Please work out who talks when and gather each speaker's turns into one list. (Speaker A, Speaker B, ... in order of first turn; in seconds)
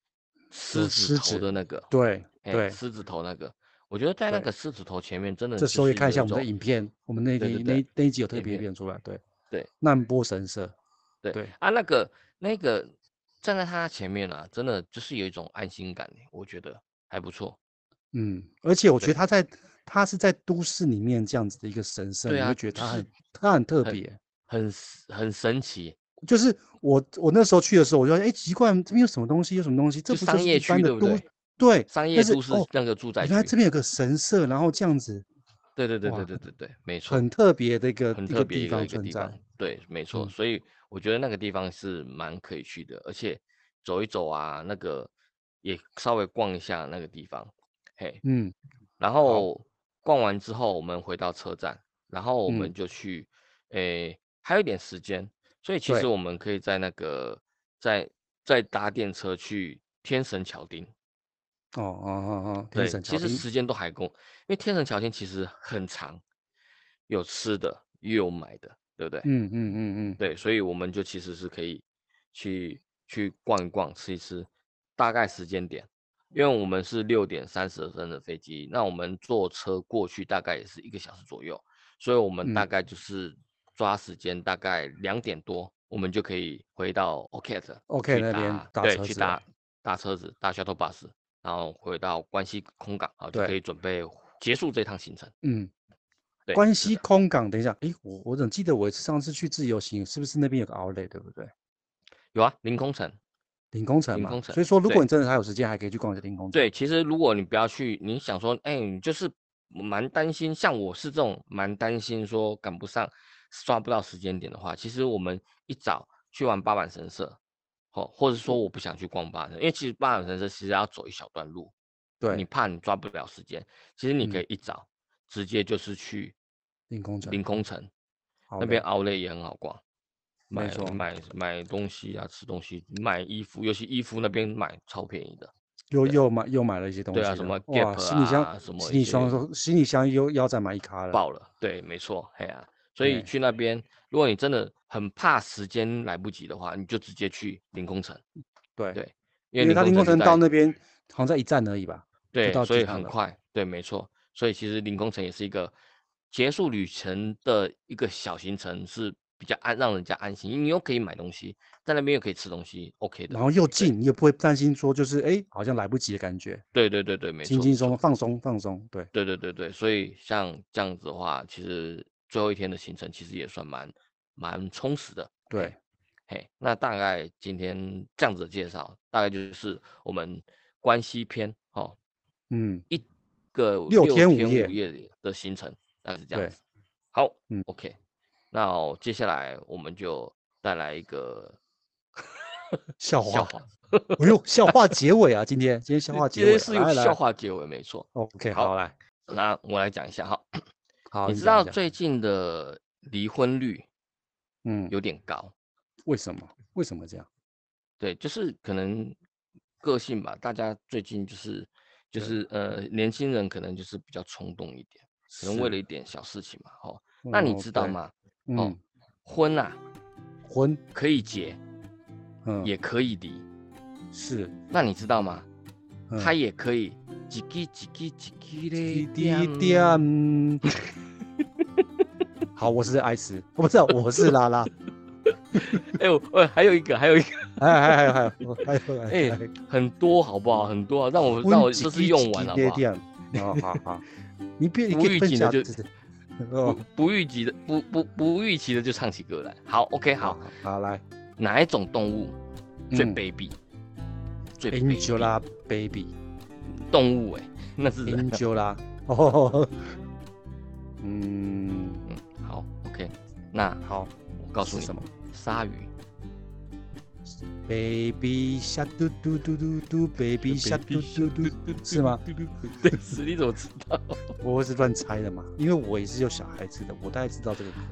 Speaker A: 0.5-1.9, 2.5-6.5, 7.4-7.8, 8.3-8.7, 11.2-17.6, 22.3-23.1, 23.8-25.9, 30.1-31.2, 31.9-33.5, 35.8-37.2, 38.1-45.1, 45.6-48.2, 49.0-60.9, 62.8-66.2, 67.1-69.3, 70.2-95.3, 96.5-97.0, 102.3-103.2, 104.1-105.0, 106.5-117.4, 117.9-121.7, 122.3-126.3, 127.2-127.9, 128.6-129.8, 130.5-135.5, 137.1-139.4, 141.1-148.2, 148.9-150.4, 152.3-155.7, 156.3-163.9, 166.7-168.0, 169.1-175.7, 176.3-182.0, 182.9-186.6, 187.1-188.0, 188.5-191.6, 193.2-194.8, 196.1-198.7, 199.3-200.6, 201.3-203.9, 204.9-205.5, 208.0-209.2, 209.8-218.7, 219.2-219.8, 220.9-221.6, 222.6-223.4, 224.7-225.5, 226.2-230.1, 230.7-231.9, 235.3-242.8, 243.3-243.8, 244.9-245.7, 246.6-250.4, 251.4-252.3, 252.9-253.6, 254.6-255.3, 256.8-258.4, 262.1-263.8, 264.4-265.9, 270.4-274.3
Speaker B: 0.7-2.8, 5.6-9.2, 9.8-10.8, 18.1-24.2, 26.2-32.7, 33.2-35.3, 36.1-36.3, 37.1-39.4, 48.2-48.5, 52.5-52.7, 61.7-63.4, 69.2-70.2, 87.9-89.4, 95.4-95.7, 96.5-101.5, 103.7-106.6, 122.2-122.5, 126.9-127.4, 128.5-128.8, 130.5-131.0, 135.9-141.2, 143.0-143.3, 149.6-153.2, 163.3-166.6, 167.4-169.1, 175.5-175.8, 182.5-182.8, 183.9-184.7, 193.0-193.5, 194.2-197.2, 198.2-198.9, 201.1-201.8, 204.7-204.9, 206.1-207.3, 215.3-215.7, 217.2-218.0, 218.5-218.8, 220.5-220.8, 222.4-222.7, 224.1-224.5, 228.8-230.6, 232.6-234.7, 235.6-235.9, 237.6-239.5, 241.4-244.1, 244.6-245.9, 246.4-246.8, 250.2-251.0, 252.9-253.2, 254.7-256.1, 258.1-260.0, 261.0-262.1, 263.8-265.1, 267.7-272.2, 272.8-273.1, 274.4-277.8